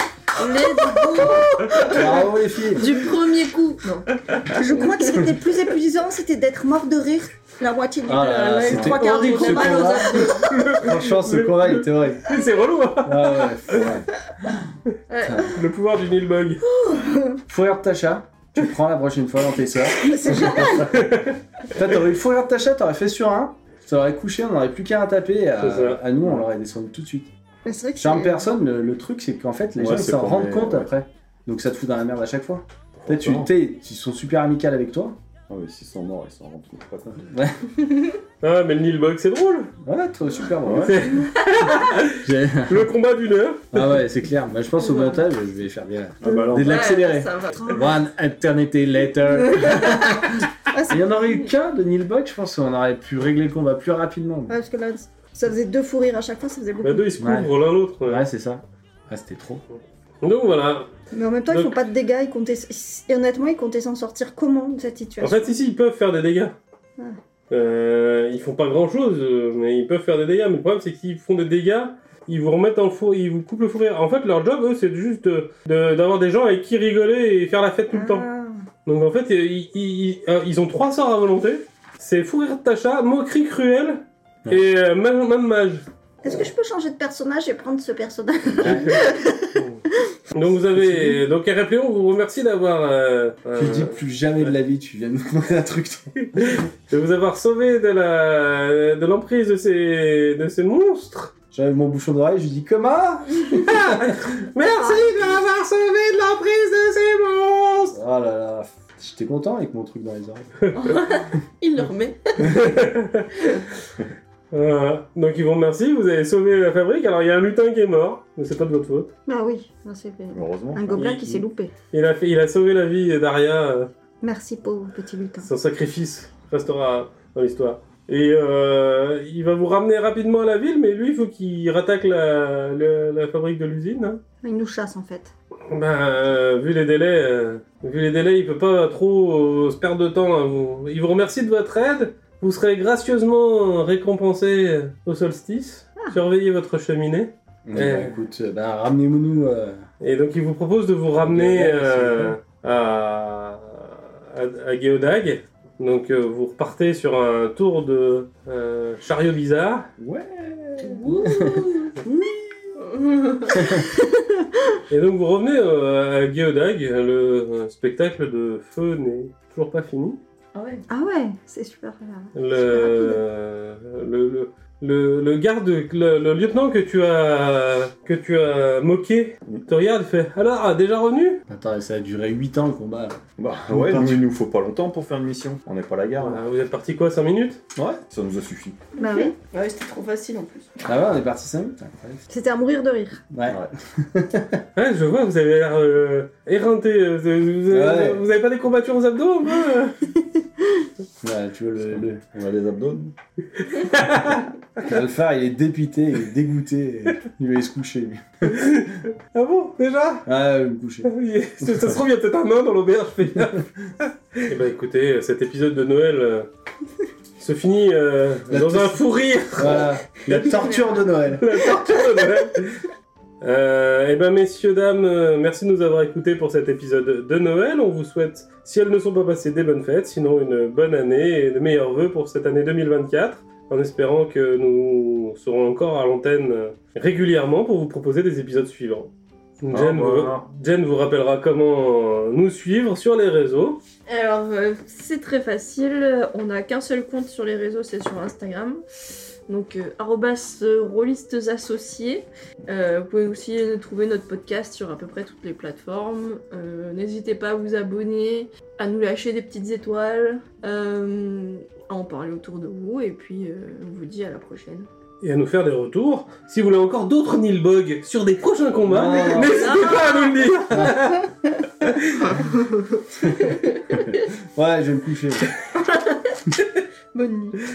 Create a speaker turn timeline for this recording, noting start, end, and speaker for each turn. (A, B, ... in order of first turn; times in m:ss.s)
0:00.4-0:05.2 A
0:00.5-0:02.1 B
0:01.9-0:02.9 C
0:04.5-0:10.5 B
0:08.0-0:12.4 C
0:08.7-0:10.4 A
0:08.7-0:08.9 D
0:10.4-0:13.8 E
0:13.0-0:14.1 C
0:13.8-0:14.0 D
0:15.1-0:15.6 A
0:15.2-0:15.6 C
0:15.5-0:16.6 E
0:16.6-0:17.4 B
0:17.5-0:20.8 C
0:20.0-0:21.0 B
0:20.7-0:21.4 E
0:21.7-0:27.3 C
0:25.6-0:26.0 E
0:27.6-0:28.5 B
0:28.0-0:35.2 C
0:29.8-0:30.9 D
0:33.0-0:33.5 D
0:35.5-0:37.3 D
0:37.3-0:37.7 C
0:38.4-0:39.7 E
0:39.8-0:41.0 C
0:40.6-0:41.0 D
0:40.8-0:43.8 E
0:42.2-0:42.9 C
0:43.7-0:54.5 C
0:46.2-0:47.0 D
0:46.6-0:47.9 A
0:49.4-0:51.5 B
0:54.5-0:57.1 B
0:56.8-0:58.2 E
0:57.2-0:57.5 C
0:58.0-0:59.6 C
1:00.2-1:00.9 E
1:01.1-1:05.6 B
1:01.5-1:01.8 E
1:05.2-1:06.6 E
1:07.5-1:18.2 E
1:17.9-1:18.6 B
1:18.9-1:25.8 E
1:26.2-1:29.6 B
1:28.6-1:29.0 C
1:29.6-1:34.0 E
1:30.8-1:31.2 C
1:33.6-1:36.3 C
1:36.3-1:41.3 E
1:41.5-1:44.3 C
1:43.6-1:48.0 E
1:44.7-1:45.4 B
1:47.9-1:50.6 C
1:50.7-1:51.0 E
1:50.8-1:52.7 A
1:52.4-1:53.3 E
1:53.4-1:53.6 A
1:54.5-1:59.1 E
1:59.3-2:01.7 B
2:00.3-2:01.2 D
2:00.9-2:03.9 E
2:04.2-2:05.5 B
2:05.4-2:14.2 E
2:14.4-2:15.3 B
2:15.7-2:28.2 E
2:27.7-2:29.8 C
2:30.0-2:39.9 E
2:31.2-2:32.4 C
2:40.0-2:41.7 C
2:40.8-2:41.8 A
2:41.3-2:42.2 B
2:42.8-2:43.7 A
2:43.5-2:43.8 C
2:44.9-2:50.2 E
2:50.5-2:50.8 A
2:50.9-2:53.2 B
2:52.4-3:01.4 E
3:01.5-3:04.3 C
3:03.4-3:06.4 D
3:06.2-3:07.6 E
3:07.8-3:08.0 C
3:08.1-3:08.8 D
3:09.0-3:09.4 B
3:09.0-3:10.9 A
3:10.8-3:12.2 C
3:12.3-3:13.2 B
3:13.3-3:14.6 C
3:14.8-3:20.0 E
3:17.7-3:18.2 C
3:21.2-3:22.2 C
3:21.9-3:23.1 D
3:23.6-3:24.5 E
3:24.8-3:28.7 C
3:28.5-3:30.3 E
3:30.2-3:31.9 C
3:31.0-3:33.6 E
3:33.4-3:33.6 C
3:34.4-3:36.5 E
3:37.4-3:39.9 E
3:38.5-3:39.0 C
3:39.6-3:41.5 C
3:40.3-3:40.9 A
3:41.3-3:42.8 E
3:43.4-4:03.8 E
3:59.7-4:00.5 D
4:04.1-4:08.8 A
4:09.5-4:24.9 A
4:25.2-4:31.3 E
4:28.8-4:29.8 C
4:29.1-4:30.6 A
4:30.7-4:31.1 C
4:31.8-4:32.4 E
4:34.4-4:35.5 C
4:37.1-4:37.6 B